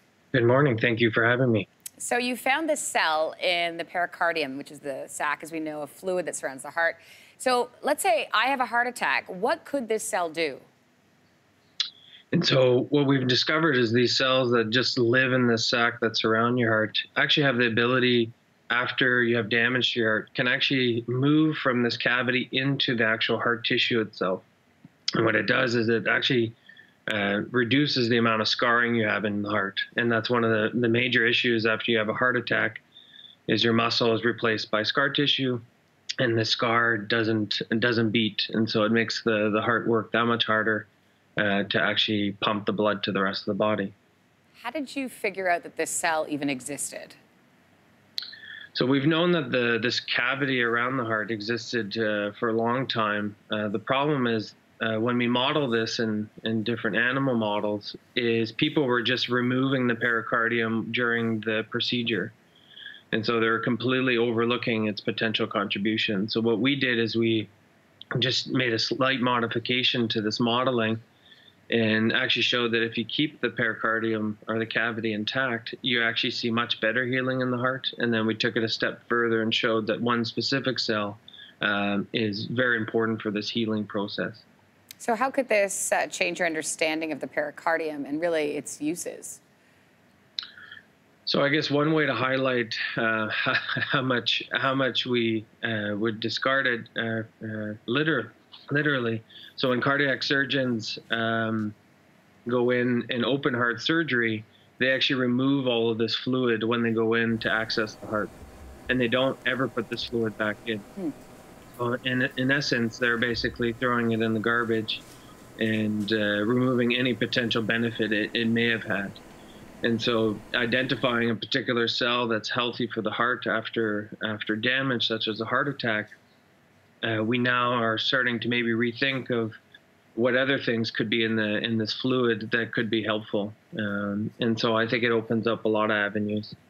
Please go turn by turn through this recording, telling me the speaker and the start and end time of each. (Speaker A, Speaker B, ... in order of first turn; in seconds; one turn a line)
Speaker A: 0.3-1.7
Speaker B: 2.0-10.7
Speaker A: 12.3-24.4
Speaker A: 25.1-26.6
Speaker A: 27.1-32.8
Speaker A: 33.5-35.6
Speaker A: 36.2-43.9
Speaker B: 44.6-47.2
Speaker A: 48.7-62.3
Speaker A: 63.1-67.5
Speaker A: 68.1-71.0
Speaker A: 71.7-84.4
Speaker B: 85.0-89.4
Speaker A: 91.2-101.8
Speaker A: 102.5-108.3
Speaker A: 108.9-110.8
Speaker A: 111.8-115.0
Speaker A: 115.6-119.2
Speaker A: 119.8-126.1
Speaker A: 127.0-129.6
Speaker A: 130.1-136.5